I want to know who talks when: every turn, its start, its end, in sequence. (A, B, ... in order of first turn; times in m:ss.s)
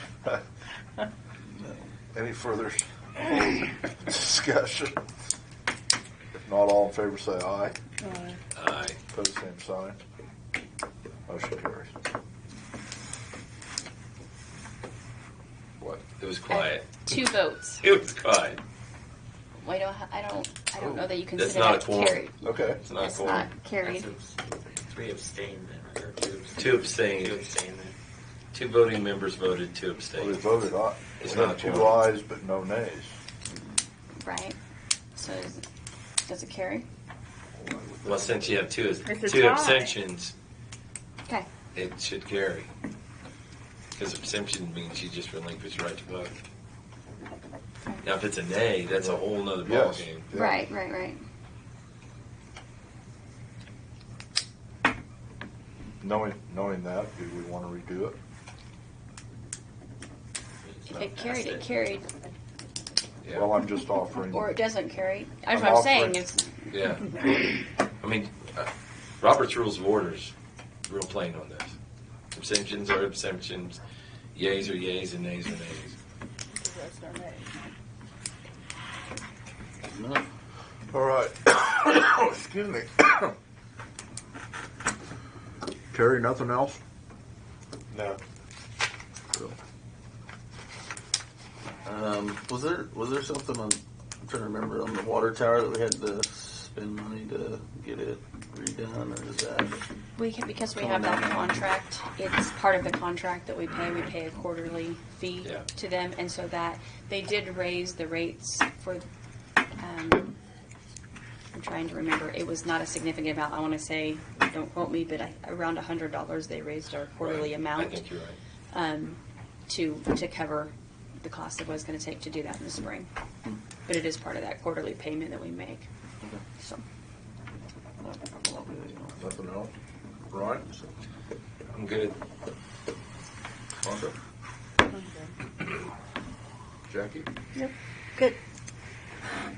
0:01.4-0:01.9 A
0:02.1-0:02.9 B
0:03.9-0:05.0 B
0:06.4-0:07.8 B
0:08.0-0:08.4 C
0:08.5-0:09.0 D
0:09.1-0:10.0 B
0:11.3-0:11.9 B
0:15.8-0:17.2 D
0:16.5-0:17.8 E
0:17.8-0:18.6 D
0:19.6-0:22.4 E
0:21.4-0:22.2 D
0:22.4-0:22.8 B
0:22.8-0:23.5 D
0:22.9-0:24.0 E
0:23.8-0:28.0 F
0:26.6-0:27.6 D
0:28.5-0:30.6 D
0:30.2-0:33.2 B
0:31.2-0:32.0 D
0:34.2-0:34.6 E
0:35.2-0:35.6 E
0:36.3-0:36.9 E
0:37.6-0:38.4 B
0:38.0-0:40.3 D
0:39.0-0:39.9 C
0:41.7-0:42.7 D
0:44.0-0:46.4 D
0:48.0-0:50.2 D
0:48.9-0:50.6 B
0:50.3-0:51.2 E
0:56.0-0:58.2 B
1:00.9-1:02.0 E
1:01.0-1:01.6 F
1:03.3-1:04.6 B
1:04.3-1:07.2 E
1:05.5-1:06.2 B
1:06.7-1:07.2 D
1:08.0-1:10.3 D
1:10.9-1:11.8 D
1:12.3-1:13.8 D
1:14.3-1:16.0 D
1:16.5-1:17.5 C
1:19.9-1:20.2 A
1:20.9-1:23.3 B
1:25.9-1:26.8 B
1:27.9-1:28.2 F
1:31.8-1:39.8 A
1:40.2-1:49.0 E
1:40.7-1:41.5 A
1:49.8-1:50.4 E
1:51.5-1:58.0 E
1:57.2-1:58.4 D
1:58.7-2:03.1 E
2:03.8-2:05.9 E
2:06.6-2:06.8 E
2:08.0-2:09.2 A
2:09.2-2:09.7 B
2:10.3-2:10.7 B
2:11.7-2:12.2 D
2:13.8-2:14.1 B
2:14.9-2:15.4 C
2:16.9-2:17.3 B